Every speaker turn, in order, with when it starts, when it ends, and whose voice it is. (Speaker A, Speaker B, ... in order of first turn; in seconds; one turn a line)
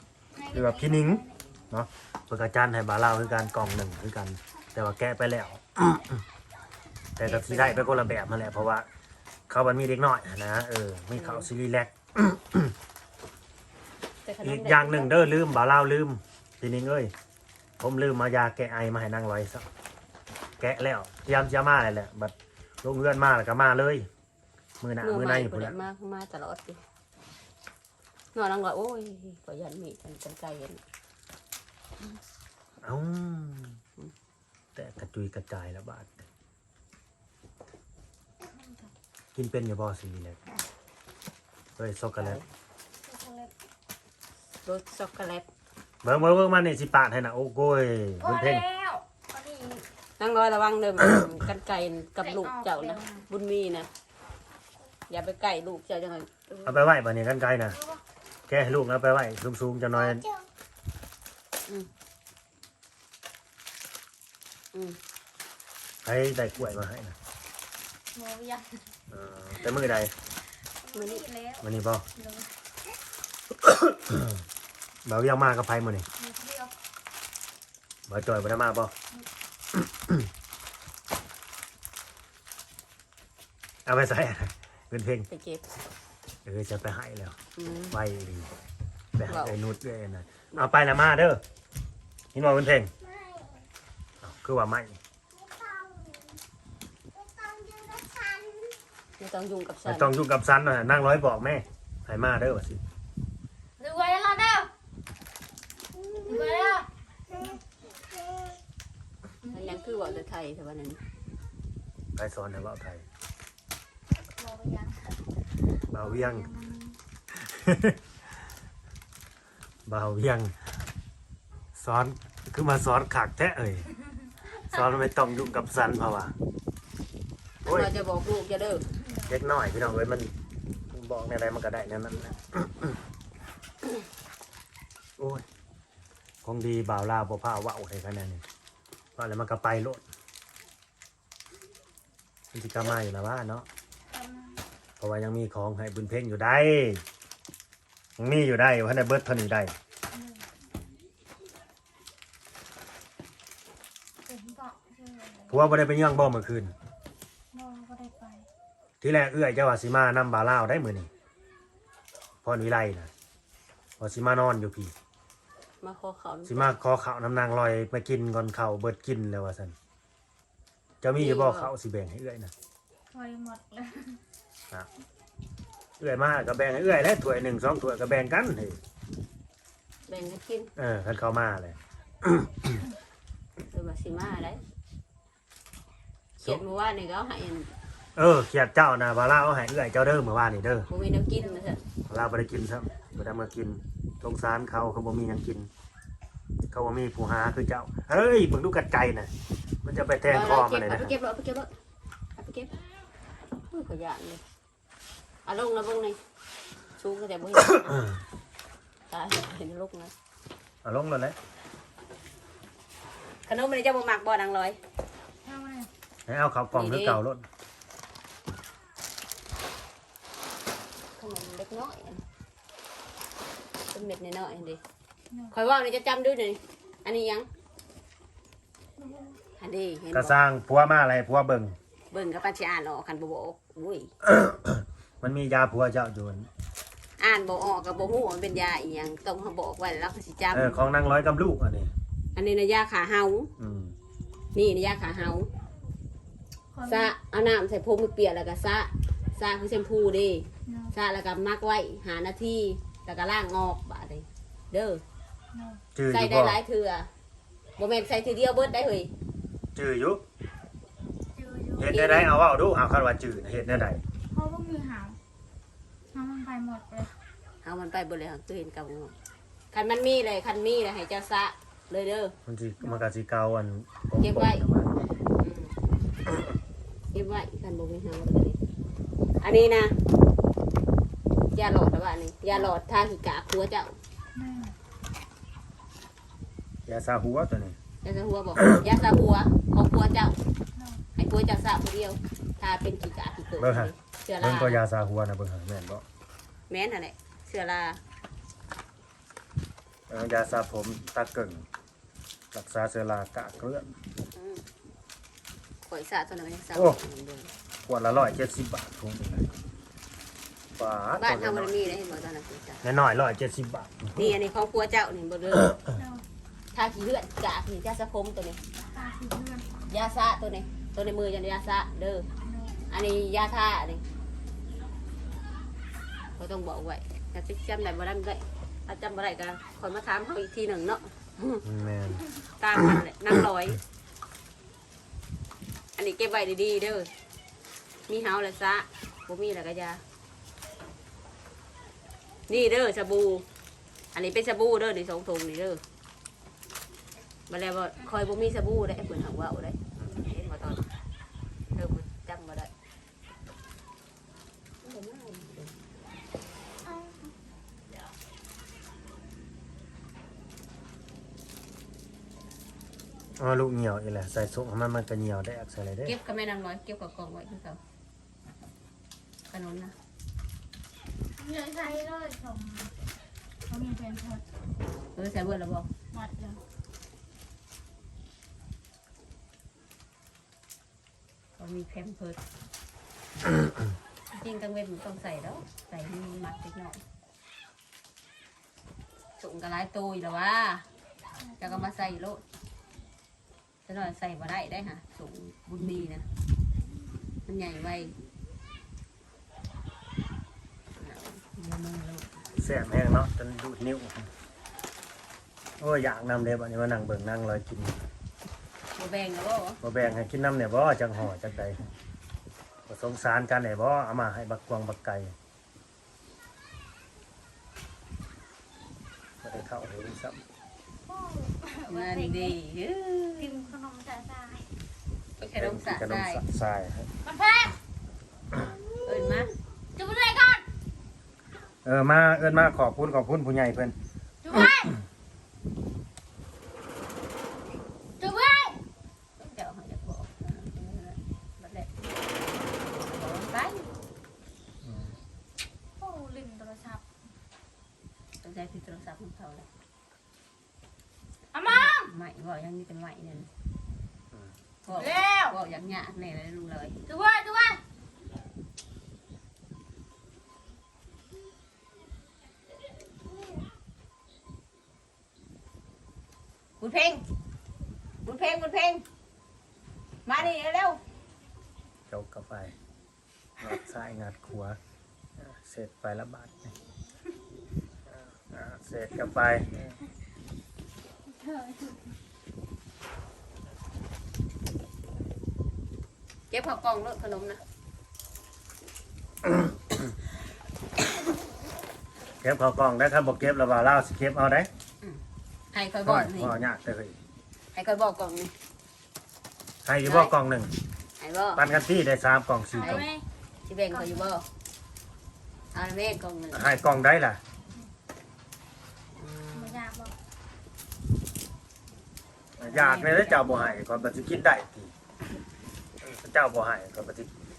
Speaker A: 0.3-1.4
Speaker B: 0.5-6.2
Speaker B: 7.2-8.9
Speaker C: 7.2-7.9
Speaker B: 9.5-12.7
Speaker C: 11.1-11.5
Speaker C: 14.2-15.4
Speaker B: 14.4-17.1
Speaker B: 17.8-19.7
Speaker B: 20.6-24.1
Speaker B: 24.8-25.8
Speaker C: 25.0-26.8
Speaker C: 28.3-30.8
Speaker B: 32.8-33.8
Speaker B: 34.8-36.2
Speaker A: 38.4-38.9
Speaker B: 39.4-40.4
Speaker B: 41.8-42.4
Speaker C: 42.2-42.5
Speaker A: 43.0-43.5
Speaker C: 44.7-45.5
Speaker B: 46.0-48.6
Speaker A: 48.2-49.9
Speaker C: 50.2-53.9
Speaker A: 52.2-53.2
Speaker C: 55.1-56.8
Speaker B: 56.6-57.8
Speaker A: 57.7-58.0
Speaker B: 58.5-60.2
Speaker D: 59.9-60.5
Speaker B: 66.0-67.2
Speaker A: 68.1-68.8
Speaker B: 69.1-70.1
Speaker A: 70.8-72.5
Speaker C: 70.9-71.3
Speaker B: 71.6-72.0
Speaker B: 73.6-74.4
Speaker B: 75.0-76.1
Speaker A: 76.2-76.7
Speaker B: 78.1-78.9
Speaker B: 79.8-80.3
Speaker B: 83.9-85.3
Speaker C: 85.3-85.7
Speaker B: 86.5-87.4
Speaker C: 87.6-88.0
Speaker B: 87.9-88.5
Speaker B: 89.2-91.4
Speaker C: 89.3-89.6
Speaker B: 92.3-92.9
Speaker D: 93.0-93.7
Speaker B: 94.2-95.0
Speaker D: 95.3-96.4
Speaker D: 97.1-98.8
Speaker C: 99.2-100.1
Speaker B: 99.9-102.8
Speaker A: 103.8-104.7
Speaker D: 105.9-108.6
Speaker A: 106.3-106.9
Speaker A: 109.4-109.8
Speaker C: 109.5-111.0
Speaker B: 112.2-113.0
Speaker A: 114.1-115.2
Speaker B: 115.9-116.5
Speaker A: 116.0-117.0
Speaker B: 117.3-118.0
Speaker B: 119.9-120.5
Speaker B: 121.8-123.9
Speaker B: 124.7-126.3
Speaker B: 127.7-128.0
Speaker C: 127.7-128.9
Speaker B: 129.3-130.3
Speaker B: 130.9-133.0
Speaker B: 135.2-135.4
Speaker B: 136.4-138.4
Speaker B: 139.2-140.0
Speaker B: 142.5-143.7
Speaker A: 144.1-144.6
Speaker B: 145.0-147.0
Speaker B: 148.2-149.7
Speaker A: 150.1-150.5
Speaker A: 154.2-155.9
Speaker B: 155.5-156.7
Speaker A: 157.5-158.5
Speaker B: 159.0-161.1
Speaker B: 162.4-163.1
Speaker B: 164.0-164.9
Speaker C: 165.8-166.8
Speaker B: 166.5-169.8
Speaker B: 171.0-172.5
Speaker C: 171.2-171.7
Speaker A: 173.1-174.2
Speaker B: 176.0-178.8
Speaker C: 180.1-180.7
Speaker B: 180.8-182.8
Speaker C: 183.7-184.6
Speaker C: 186.4-187.7
Speaker B: 188.2-190.9
Speaker C: 190.9-191.8
Speaker B: 192.1-195.7
Speaker B: 196.7-199.3
Speaker B: 199.8-201.1
Speaker C: 200.3-201.7
Speaker C: 202.4-202.7
Speaker C: 203.7-204.4
Speaker C: 205.4-206.2
Speaker C: 207.0-208.0
Speaker B: 207.8-208.2
Speaker C: 209.1-210.1
Speaker B: 210.8-211.4
Speaker C: 213.5-214.8
Speaker A: 215.4-215.9
Speaker B: 216.3-217.4
Speaker C: 216.7-217.2
Speaker C: 221.2-222.2
Speaker C: 223.9-224.8
Speaker C: 225.5-227.5
Speaker A: 229.0-229.4
Speaker C: 229.6-230.3
Speaker B: 230.1-231.8
Speaker C: 232.1-234.1
Speaker B: 234.2-236.5
Speaker C: 237.2-240.8
Speaker B: 240.5-241.9
Speaker C: 242.3-243.5
Speaker B: 243.6-243.9
Speaker C: 244.6-245.5
Speaker A: 246.7-247.1
Speaker C: 246.9-255.0
Speaker A: 250.7-250.9
Speaker A: 255.5-255.8
Speaker B: 255.9-256.6
Speaker C: 256.1-257.1
Speaker C: 257.8-259.1
Speaker B: 259.8-260.2
Speaker A: 261.4-261.9
Speaker B: 261.8-264.0
Speaker C: 261.9-262.3
Speaker A: 264.3-265.2
Speaker A: 266.1-267.1
Speaker C: 267.6-269.1
Speaker C: 269.7-272.4
Speaker B: 272.5-275.1
Speaker C: 274.2-274.6
Speaker C: 275.4-275.8
Speaker C: 277.1-278.6
Speaker C: 279.4-279.9
Speaker C: 281.6-284.0
Speaker A: 284.4-284.8
Speaker B: 286.9-287.8
Speaker C: 288.0-290.4
Speaker A: 290.8-291.0
Speaker C: 291.2-294.8
Speaker B: 293.6-296.0
Speaker C: 296.7-298.0
Speaker B: 300.1-301.6
Speaker B: 302.5-303.9
Speaker C: 304.3-304.6
Speaker C: 305.9-307.5
Speaker B: 306.8-307.0
Speaker B: 307.9-309.5
Speaker B: 310.8-311.8
Speaker C: 311.1-312.9
Speaker B: 312.8-314.4
Speaker C: 314.2-315.7
Speaker A: 315.6-316.2
Speaker C: 316.7-318.6
Speaker A: 318.8-319.7
Speaker C: 319.9-322.3
Speaker A: 322.4-322.8
Speaker C: 322.9-324.0
Speaker C: 326.4-331.6
Speaker B: 331.6-332.2
Speaker C: 332.6-333.8
Speaker C: 336.0-337.1
Speaker C: 338.1-340.0
Speaker C: 342.5-343.4
Speaker C: 344.1-345.8
Speaker C: 347.5-350.9
Speaker C: 351.7-352.7
Speaker C: 354.8-355.7
Speaker B: 363.4-366.1
Speaker C: 366.1-367.8
Speaker C: 369.5-369.9
Speaker A: 371.4-372.9
Speaker A: 373.7-374.4
Speaker C: 375.1-375.9
Speaker A: 376.1-376.6
Speaker C: 381.6-382.4
Speaker C: 384.4-387.0
Speaker C: 389.4-390.9
Speaker A: 391.5-391.9
Speaker C: 391.6-392.4
Speaker C: 393.9-396.2
Speaker C: 397.5-398.1
Speaker C: 401.0-402.3
Speaker B: 402.6-404.3
Speaker B: 405.8-408.0
Speaker C: 409.0-409.8
Speaker B: 409.8-411.9
Speaker B: 412.9-415.3
Speaker B: 419.4-420.4
Speaker A: 421.1-422.6
Speaker C: 421.9-423.7
Speaker A: 423.4-424.7
Speaker C: 425.4-426.4
Speaker B: 425.6-427.1
Speaker A: 427.2-427.8
Speaker C: 429.0-429.5
Speaker A: 430.0-430.7
Speaker B: 431.9-433.9
Speaker A: 434.4-435.0
Speaker A: 438.2-438.8
Speaker C: 439.4-441.9
Speaker C: 443.0-443.9
Speaker B: 444.8-445.1
Speaker A: 446.0-447.0
Speaker C: 448.4-449.7
Speaker A: 451.5-452.1
Speaker C: 451.7-453.5
Speaker C: 454.9-457.0
Speaker A: 454.9-455.6
Speaker A: 457.1-457.8
Speaker C: 466.8-467.2
Speaker C: 468.2-469.0
Speaker C: 470.3-471.0
Speaker B: 472.1-472.7
Speaker B: 473.6-474.8
Speaker B: 475.4-476.7
Speaker B: 478.1-479.9
Speaker A: 481.3-482.1
Speaker C: 486.5-487.6
Speaker B: 489.4-490.1
Speaker B: 492.4-494.7
Speaker C: 495.7-496.6
Speaker B: 496.1-497.2
Speaker C: 497.7-498.5
Speaker B: 499.8-500.7
Speaker C: 500.0-500.3
Speaker C: 501.2-501.6
Speaker B: 501.6-503.1
Speaker A: 502.7-503.2
Speaker C: 503.7-504.4
Speaker A: 503.9-504.3
Speaker C: 505.7-506.7
Speaker B: 506.5-507.4
Speaker C: 509.2-509.8
Speaker A: 509.5-510.1
Speaker C: 512.6-513.7
Speaker B: 512.6-514.9
Speaker B: 516.0-517.3